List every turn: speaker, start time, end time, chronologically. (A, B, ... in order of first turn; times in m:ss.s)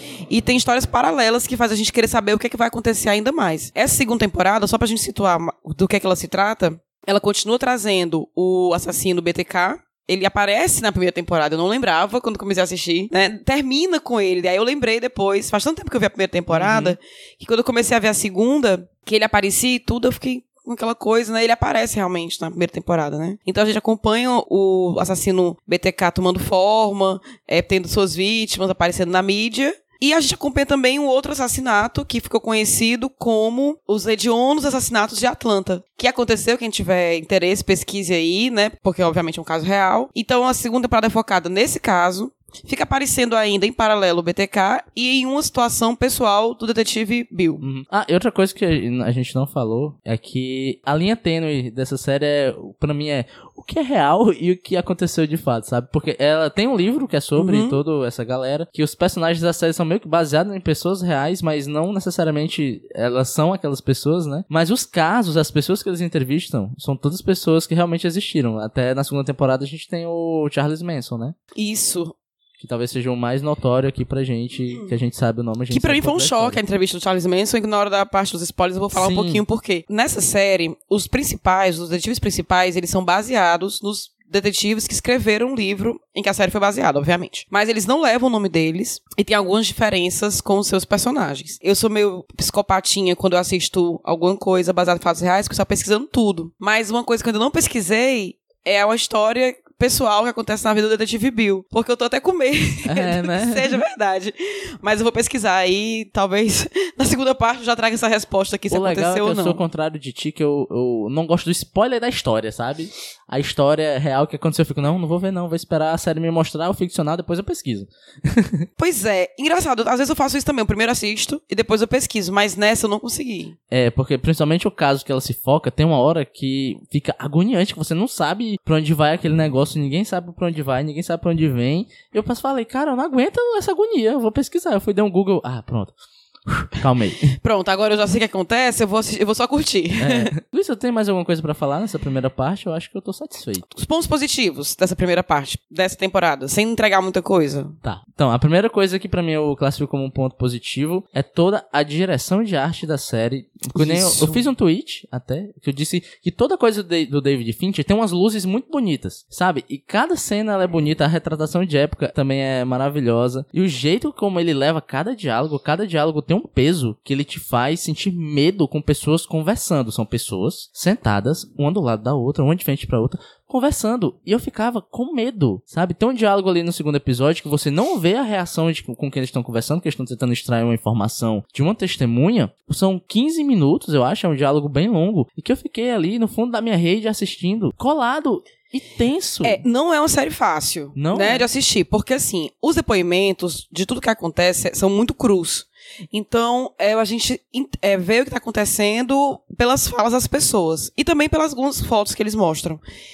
0:00.3-0:47.6 A
0:16.5-0:17.0 B
0:47.6-1:11.3 B
0:57.4-0:57.8 A
1:11.5-1:12.1 A
1:12.6-1:16.6 B
1:15.7-1:49.6 A
1:18.9-1:19.4 B
1:42.9-1:43.8 B
1:48.7-1:58.7 B
1:58.8-2:03.5 A
2:03.7-2:15.9 B
2:16.4-2:17.3 B
2:17.4-2:20.3 A
2:20.0-2:23.6 B
2:23.7-2:27.8 A
2:27.8-3:09.6 B
2:33.7-2:34.4 A
3:09.4-3:22.8 A
3:10.9-3:11.4 B